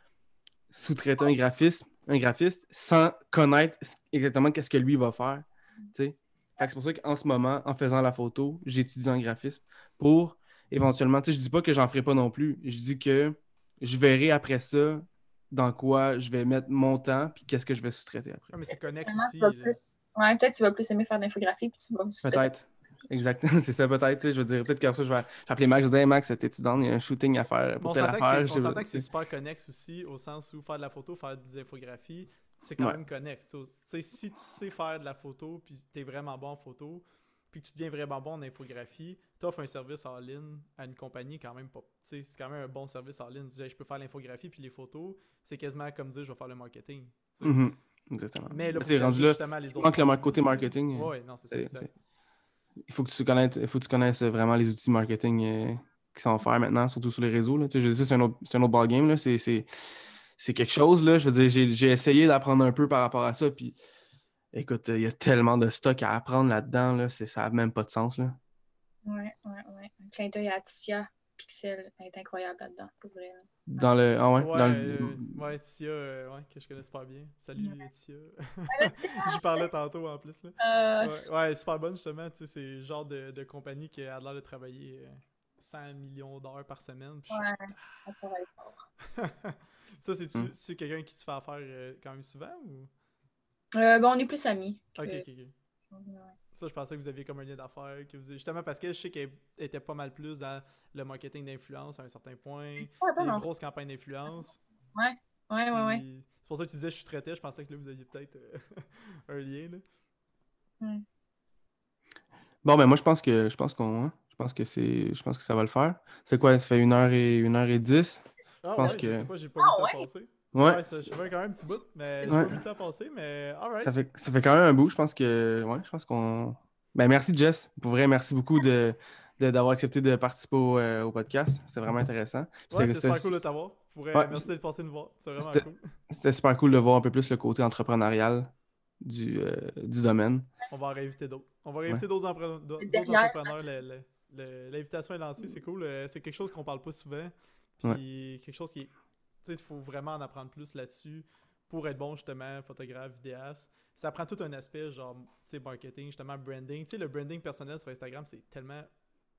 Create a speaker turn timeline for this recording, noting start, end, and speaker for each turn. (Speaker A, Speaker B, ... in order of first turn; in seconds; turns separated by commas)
Speaker A: 0.7-18.5, Speaker B: 18.5-19.8, Speaker C: 18.7-22.5, Speaker A: 22.2-29.0, Speaker C: 23.0-23.3, Speaker B: 27.8-47.6, Speaker A: 47.4-51.9, Speaker B: 48.5-51.9, Speaker A: 52.9-59.6, Speaker A: 60.4-63.8, Speaker A: 64.5-68.4, Speaker C: 69.0-73.5, Speaker A: 73.7-75.3, Speaker B: 74.4-87.5, Speaker C: 77.6-77.9, Speaker C: 78.7-79.6, Speaker C: 80.6-81.3, Speaker C: 87.3-88.8, Speaker B: 89.0-92.9, Speaker C: 93.7-95.2, Speaker B: 95.0-95.5, Speaker C: 95.9-96.3, Speaker B: 96.5-104.6, Speaker C: 102.8-103.5, Speaker C: 104.9-106.0, Speaker B: 105.7-109.8, Speaker A: 112.6-119.3, Speaker B: 118.6-123.9, Speaker C: 119.6-120.1, Speaker A: 120.5-121.0, Speaker A: 123.8-133.4, Speaker B: 132.7-135.9, Speaker A: 134.1-134.4, Speaker A: 135.4-140.5, Speaker B: 140.7-148.9, Speaker C: 142.8-143.6, Speaker B: 149.4-158.9